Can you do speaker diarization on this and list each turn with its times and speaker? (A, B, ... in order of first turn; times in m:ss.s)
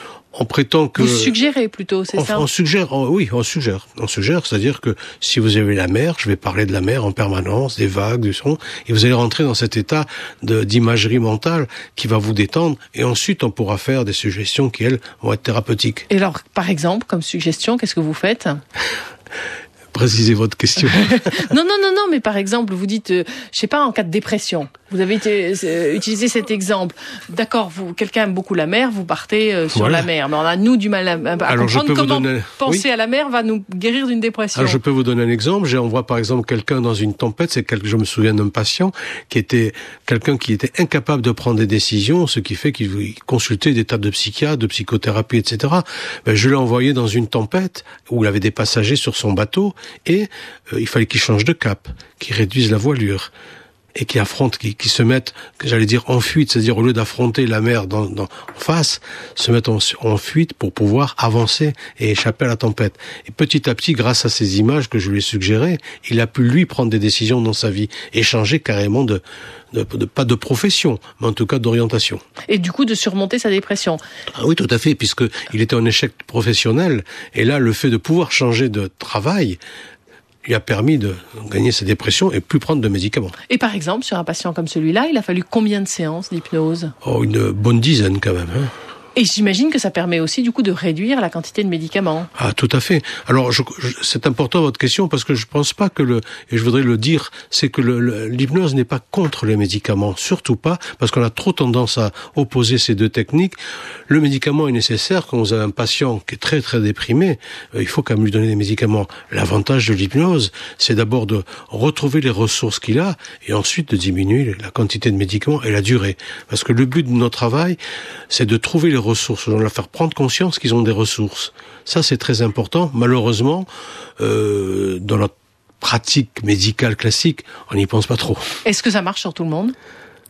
0:00.4-0:01.3 A
0:01.0-0:02.4 B
0:02.2-0:16.0 A
0:16.1-0:18.6 B
0:19.9-0:21.4 A
0:20.8-0:34.8 B
0:29.7-0:30.1 A
0:31.5-0:32.8 A
0:34.6-0:53.3 A
0:54.0-1:09.2 A
1:09.7-1:12.2 A
1:12.5-1:14.0 B
1:14.3-1:19.6 A
1:20.4-1:23.3 A
1:23.5-1:26.9 B
1:27.0-1:28.7 A
1:29.2-1:32.3 B
1:32.4-1:43.6 A
1:44.1-1:57.8 A
1:58.3-2:03.7 A
2:04.2-2:08.4 A
2:08.6-2:09.8 B